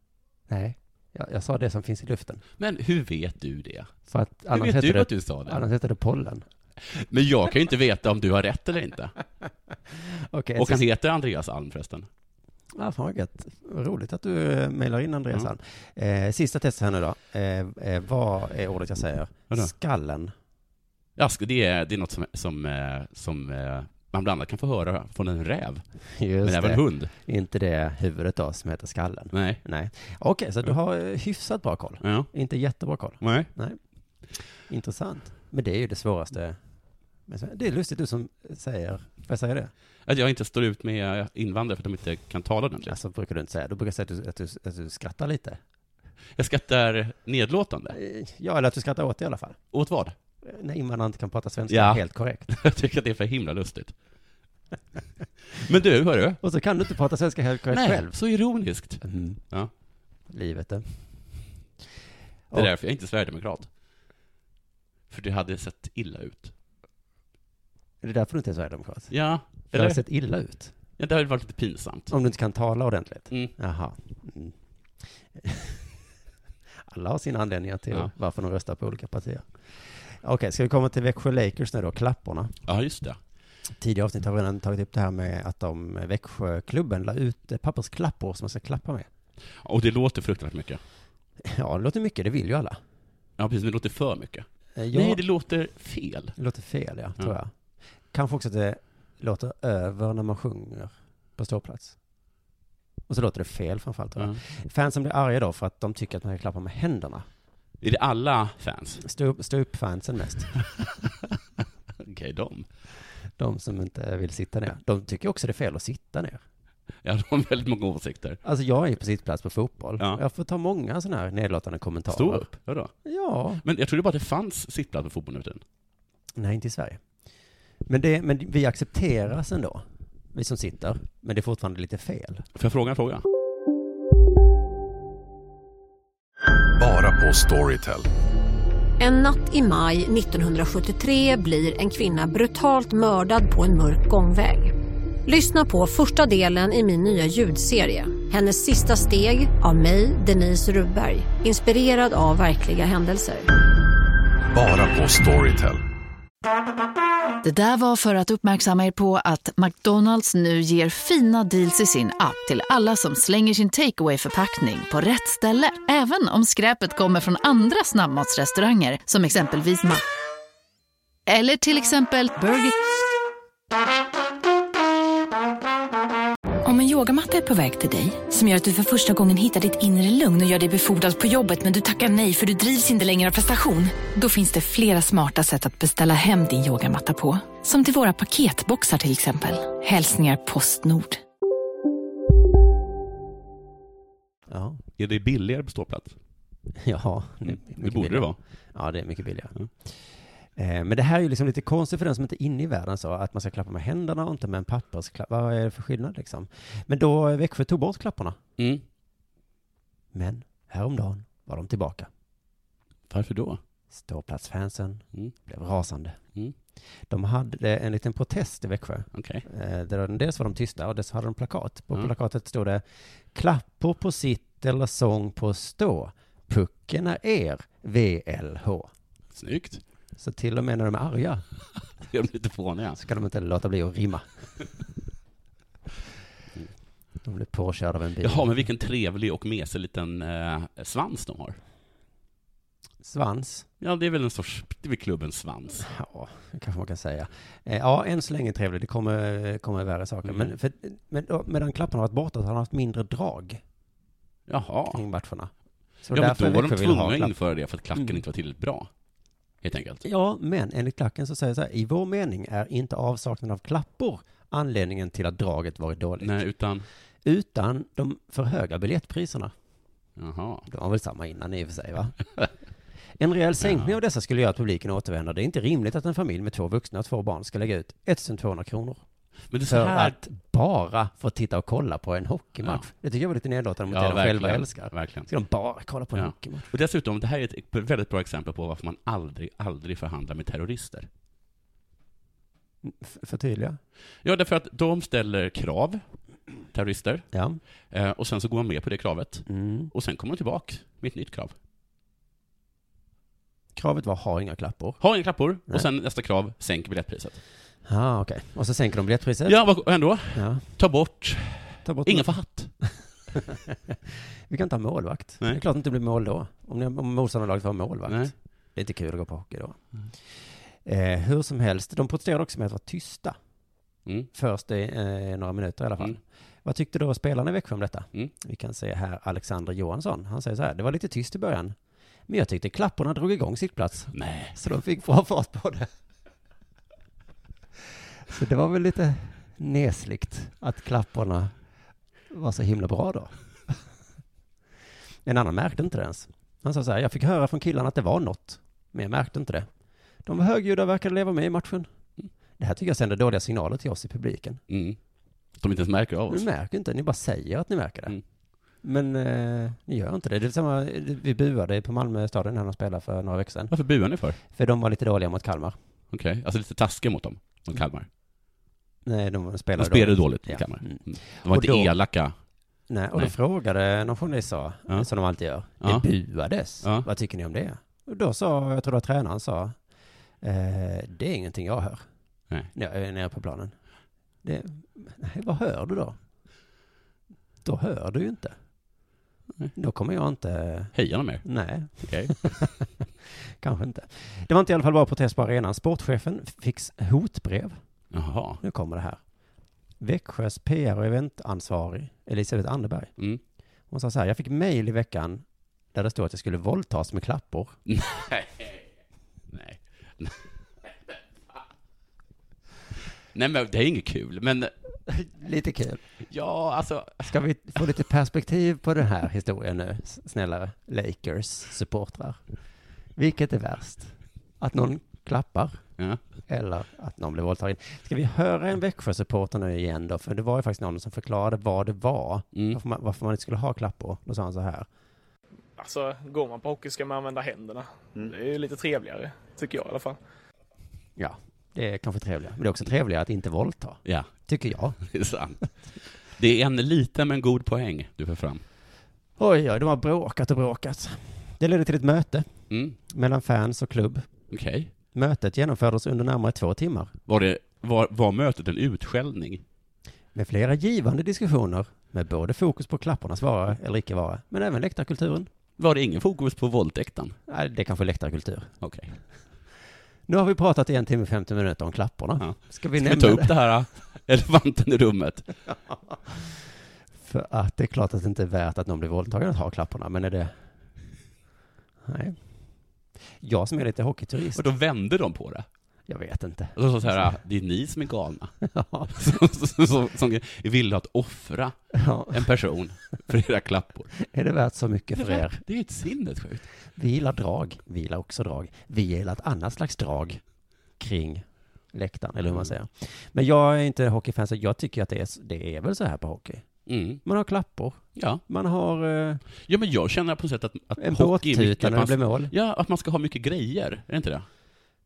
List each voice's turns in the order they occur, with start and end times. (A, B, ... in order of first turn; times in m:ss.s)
0:00.5-0:02.4 A
0:02.6-0:03.9 B
0:04.1-0:06.4 A
0:04.5-0:05.6 B
0:06.9-0:09.1 B
0:10.0-0:10.8 A
0:10.6-0:12.1 B
0:12.7-0:20.3 A
0:21.2-0:25.8 B
0:26.1-0:33.8 A
0:26.4-0:27.1 B
0:29.3-0:29.6 B
0:32.0-0:32.3 B
0:33.2-0:33.5 B
0:34.7-0:36.6 A
0:37.3-0:39.7 A
0:40.0-0:43.0 B
0:42.9-0:45.6 A
0:46.4-0:48.0 B
0:47.9-0:49.6 A
0:49.7-0:50.2 B
0:50.4-0:52.5 A
0:51.7-0:53.9 B
0:55.5-0:56.4 B
0:56.4-0:58.1 A
0:57.7-0:59.7 B
0:59.0-0:59.4 A
1:00.3-1:00.8 A
1:02.5-1:03.7 B
1:05.1-1:06.5 B
1:08.0-1:09.1 A
1:09.1-1:10.0 B
1:09.7-1:10.7 A
1:11.0-1:12.1 B
1:12.1-1:14.5 A
1:15.3-1:15.9 A
1:16.8-1:22.5 A
1:22.6-1:23.2 B
1:23.8-1:29.1 A
1:29.6-1:30.8 B
1:31.4-1:32.8 A
1:33.4-1:36.3 B
1:34.8-1:35.2 A
1:36.4-1:37.5 A
1:38.1-1:42.0 A
1:43.1-1:47.2 A
1:47.8-1:49.0 B
1:49.0-1:50.6 A
1:52.0-1:52.7 B
1:53.4-1:56.4 A
1:57.0-1:58.4 B
1:58.4-2:02.5 A
2:02.1-2:02.9 B
2:03.0-2:03.6 A
2:03.6-2:05.6 B
2:06.4-2:07.0 A
2:07.9-2:12.4 A
2:12.6-2:13.2 B
2:16.8-2:18.1 C
2:19.0-2:24.7 D
2:25.2-2:33.5 D
2:34.5-2:35.8 C
2:37.4-2:50.0 E
2:51.3-2:52.7 E
2:56.6-3:11.2 F
3:14.5-3:14.8 A
3:15.0-3:16.1 B
3:16.7-3:20.0 A
3:17.4-3:18.4 B
3:20.5-3:28.4 A
3:28.6-3:28.8 B
3:30.1-3:32.1 A
3:33.1-3:33.6 B
3:33.9-3:36.2 A
3:37.1-3:48.9 A
3:39.1-3:39.4 B
3:49.3-3:49.8 B
3:50.2-3:51.4 A
3:52.0-3:53.0 B
3:53.0-3:54.2 A
3:57.2-3:58.5 A
3:58.2-4:01.6 B
4:03.0-4:03.7 A
4:03.8-4:05.9 B
4:05.8-4:13.6 A
4:10.2-4:10.5 B
4:14.5-4:15.0 B
4:14.9-4:15.5 A
4:16.0-4:17.3 A
4:16.1-4:18.9 B
4:17.9-4:18.2 A
4:19.6-4:20.0 B
4:20.0-4:26.4 A
4:26.2-4:26.9 B
4:27.2-4:29.5 A
4:30.2-4:30.6 B
4:30.7-4:32.2 A
4:33.2-4:39.0 A
4:33.6-4:33.9 B
4:39.5-4:40.2 B
4:39.7-4:46.7 A
4:43.9-4:45.3 B
4:46.1-4:51.1 B
4:52.8-4:53.8 A
4:54.2-4:56.0 B
4:56.7-4:57.2 B
4:57.3-4:57.6 A
4:57.9-5:01.5 B
4:59.5-4:59.9 A
5:03.7-5:05.0 A
5:05.0-5:07.4 B
5:07.8-5:09.6 A
5:09.4-5:12.7 B
5:10.3-5:10.6 A
5:11.8-5:12.3 A
5:13.3-5:19.8 A
5:20.8-5:23.4 A
5:24.3-5:31.7 A
5:32.3-5:35.9 A
5:34.1-5:34.6 B
5:38.3-5:41.5 A
5:42.3-5:43.7 A
5:45.2-5:49.7 A
5:50.2-5:51.9 A
5:52.6-5:54.6 A
5:54.7-5:55.0 B
5:55.6-5:56.5 B
5:56.3-5:58.2 A
5:58.8-6:03.7 A
6:03.7-6:04.4 B
6:04.5-6:05.8 A
6:06.1-6:08.1 B
6:09.0-6:11.9 A
6:09.8-6:12.3 B
6:12.9-6:19.8 A
6:15.8-6:16.1 B
6:16.8-6:17.1 B
6:20.4-6:22.0 A
6:22.7-6:23.7 A
6:24.4-6:26.2 A
6:27.6-6:28.6 A
6:29.7-6:32.8 A
6:30.9-6:32.5 B
6:33.6-6:37.8 A
6:38.1-6:38.6 B
6:38.6-6:39.2 A
6:40.0-6:43.1 A
6:43.9-6:47.8 A
6:47.9-6:48.8 B
6:49.5-6:51.2 B
6:53.3-6:54.7 B
6:55.1-6:56.0 A
6:56.3-6:57.3 B
6:57.3-7:02.4 A
7:03.2-7:05.8 A
7:06.5-7:14.9 A
7:15.8-7:20.2 G
7:21.2-7:25.0 A
7:25.0-7:25.7 B
7:26.3-7:28.6 B
7:29.4-7:32.5 A
7:32.7-7:33.0 B
7:33.1-7:34.3 A
7:34.5-7:34.9 B
7:35.1-7:37.1 A
7:37.3-7:39.6 B
7:40.3-7:45.5 A
7:45.8-7:47.4 B
7:47.5-7:48.7 A
7:48.8-7:49.1 B
7:50.3-7:53.5 A
7:52.4-7:55.5 B
7:55.7-7:56.5 A
7:57.2-8:00.5 A
8:02.0-8:02.4 A
8:03.4-8:04.6 A
8:04.5-8:05.6 B
8:06.1-8:07.1 A
8:06.8-8:08.5 B
8:08.6-8:09.3 A
8:09.1-8:11.8 B
8:11.9-8:12.4 A
8:12.3-8:14.1 B
8:14.2-8:15.6 A
8:15.1-8:16.7 B
8:17.0-8:20.4 A
8:21.0-8:26.6 A
8:26.9-8:27.2 B
8:27.2-8:29.4 A
8:28.2-8:28.4 B
8:29.7-8:34.4 B
8:31.0-8:32.5 A